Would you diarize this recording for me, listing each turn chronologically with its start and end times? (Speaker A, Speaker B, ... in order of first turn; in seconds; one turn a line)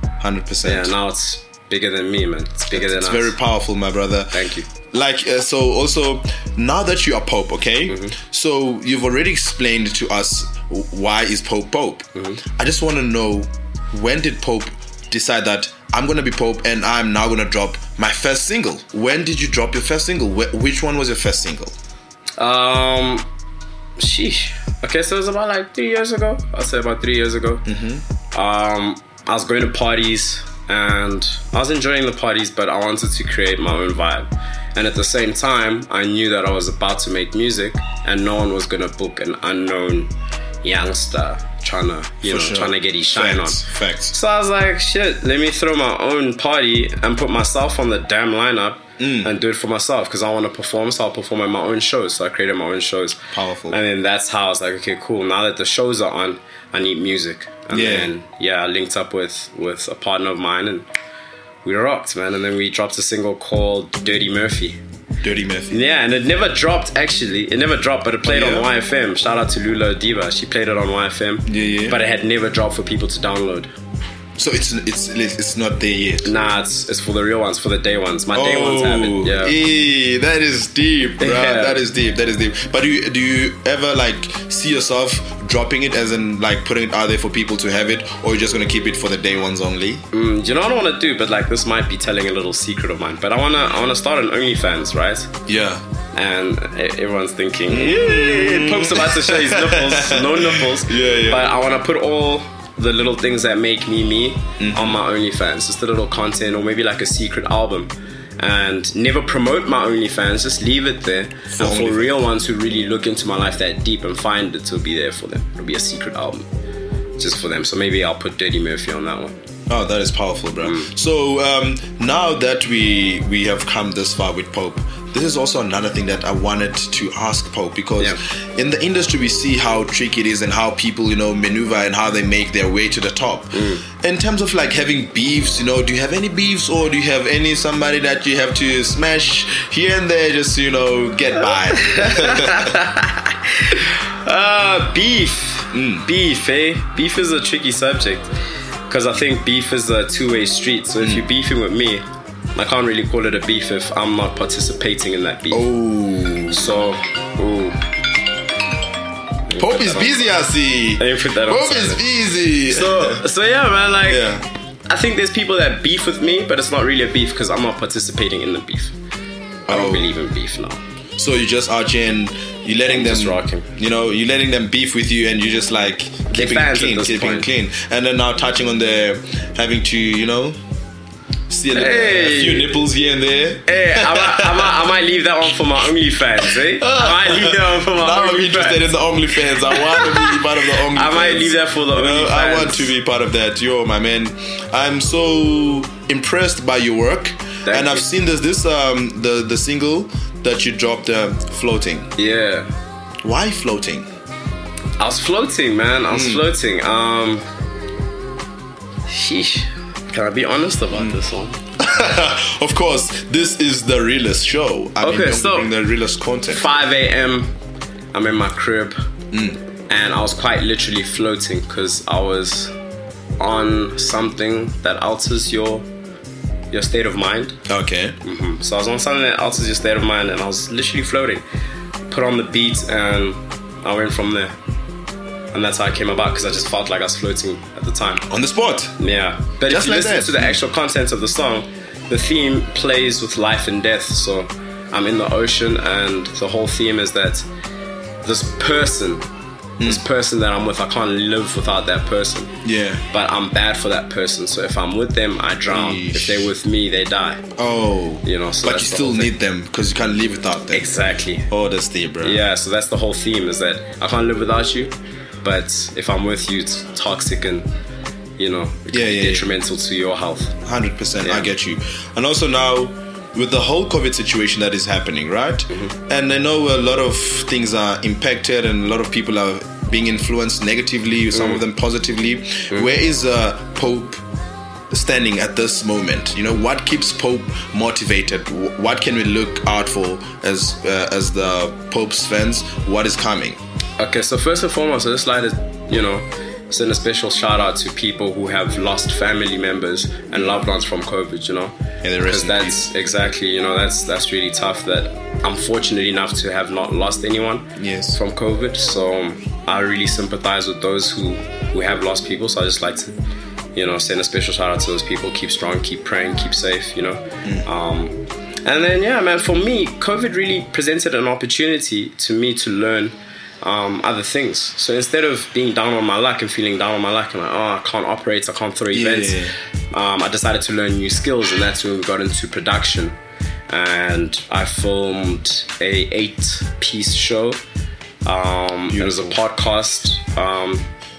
Speaker A: 0.2-0.9
Speaker B: 0.6-3.3
Speaker A: 2.7-21.8
Speaker B: 4.3-4.7
Speaker B: 7.9-8.2
Speaker B: 12.1-12.4
Speaker B: 22.4-23.3
Speaker B: 24.0-27.7
Speaker A: 27.6-28.0
Speaker B: 28.3-60.9
Speaker A: 42.2-44.1
Speaker A: 49.0-49.3
Speaker A: 53.3-53.8
Speaker A: 57.7-58.1
Speaker B: 61.6-64.8
Speaker A: 65.2-65.8
Speaker B: 65.7-73.7
Speaker A: 68.2-68.7
Speaker A: 71.5-72.0
Speaker A: 74.4-76.3
Speaker B: 76.2-79.5
Speaker A: 78.3-90.0
Speaker B: 81.2-81.8
Speaker B: 90.1-95.3
Speaker A: 95.5-95.8
Speaker B: 96.1-116.5
Speaker A: 97.7-101.5
Speaker A: 104.6-105.0
Speaker A: 111.5-112.1
Speaker B: 117.2-119.4
Speaker A: 119.7-142.7
Speaker B: 120.6-120.9
Speaker B: 133.5-133.8
Speaker B: 141.7-148.3
Speaker A: 145.7-146.1
Speaker B: 148.9-155.7
Speaker A: 155.5-156.7
Speaker B: 156.5-157.8
Speaker B: 159.5-160.4
Speaker A: 159.6-163.2
Speaker B: 161.0-162.0
Speaker B: 162.6-164.3
Speaker A: 164.1-164.4
Speaker B: 164.9-168.9
Speaker A: 169.7-170.1
Speaker B: 169.7-170.8
Speaker A: 171.2-180.6
Speaker B: 172.9-173.7
Speaker B: 176.3-177.5
Speaker A: 181.5-184.7
Speaker B: 181.7-182.7
Speaker B: 183.7-192.9
Speaker A: 186.4-202.1
Speaker B: 197.6-198.1
Speaker B: 202.2-202.7
Speaker A: 203.2-204.1
Speaker B: 205.0-207.4
Speaker A: 206.1-206.4
Speaker B: 209.1-211.6
Speaker A: 211.8-216.7
Speaker B: 215.0-215.7
Speaker B: 216.5-217.5
Speaker B: 218.1-219.1
Speaker A: 219.3-219.6
Speaker B: 219.9-222.7
Speaker B: 223.4-225.8
Speaker B: 226.7-227.6
Speaker A: 227.7-228.2
Speaker B: 228.2-231.4
Speaker B: 232.1-234.5
Speaker B: 235.5-238.2
Speaker A: 238.3-238.9
Speaker B: 239.0-247.4
Speaker A: 239.7-240.6
Speaker B: 248.2-249.2
Speaker B: 249.8-252.5
Speaker A: 252.6-253.0
Speaker B: 253.1-257.4
Speaker A: 255.7-256.5
Speaker A: 257.6-260.9
Speaker B: 258.2-259.3
Speaker B: 260.7-261.5
Speaker A: 261.5-262.4
Speaker B: 262.2-267.7
Speaker B: 268.4-270.6
Speaker A: 268.9-269.5
Speaker A: 270.6-284.2
Speaker B: 271.2-271.5
Speaker B: 281.3-281.6
Speaker A: 284.9-293.6
Speaker B: 294.0-301.7
Speaker A: 300.3-300.6
Speaker A: 302.0-302.8
Speaker B: 302.2-313.1
Speaker A: 307.8-308.2
Speaker B: 313.7-333.1
Speaker A: 328.9-329.5
Speaker B: 333.7-337.6
Speaker B: 338.2-340.9
Speaker A: 338.9-339.4